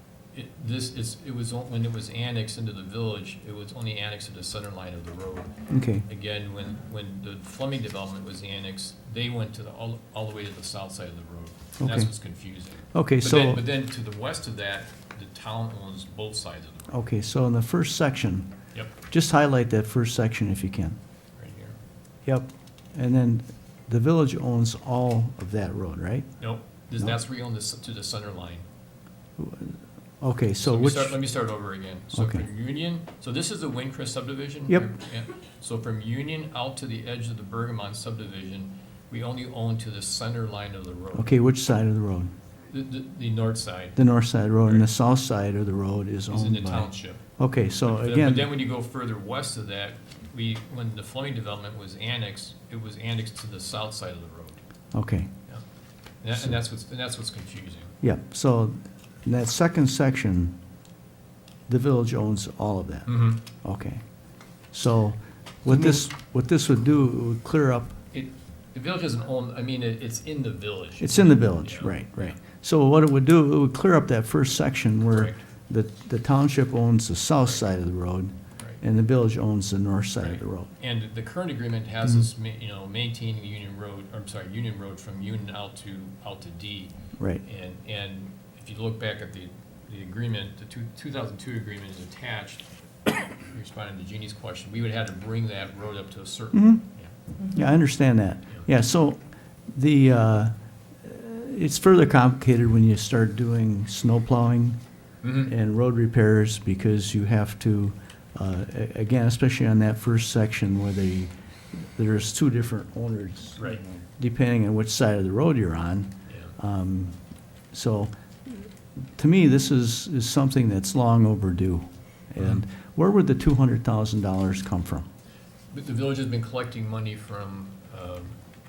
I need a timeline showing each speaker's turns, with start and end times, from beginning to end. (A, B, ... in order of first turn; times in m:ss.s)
0:00.3-0:17.0 A
0:05.7-0:06.1 B
0:11.8-0:12.1 B
0:12.9-0:13.6 B
0:16.9-0:18.5 B
0:19.1-0:21.0 B
0:21.4-0:21.8 A
0:22.2-0:26.3 B
0:26.4-0:28.6 A
0:29.4-0:31.2 B
0:30.6-0:41.4 A
0:32.1-0:32.4 B
0:41.1-0:42.3 B
0:42.7-0:44.0 A
0:44.0-0:48.5 B
0:46.3-0:47.3 A
0:47.8-0:54.6 A
0:54.9-0:55.3 B
0:56.2-0:57.9 A
0:58.0-1:00.6 B
1:01.7-1:04.0 B
1:03.1-1:03.4 A
1:04.7-1:08.0 B
1:08.1-1:12.4 A
1:11.0-1:20.7 B
1:15.1-1:15.4 A
1:20.2-1:32.6 A
1:27.2-1:27.4 B
1:33.3-1:37.1 A
1:36.5-1:36.8 B
1:37.5-1:44.8 B
1:45.2-1:45.5 A
1:45.4-1:53.7 B
1:53.6-1:53.8 A
1:54.2-1:57.2 B
1:57.7-2:05.1 B
2:05.7-2:08.4 A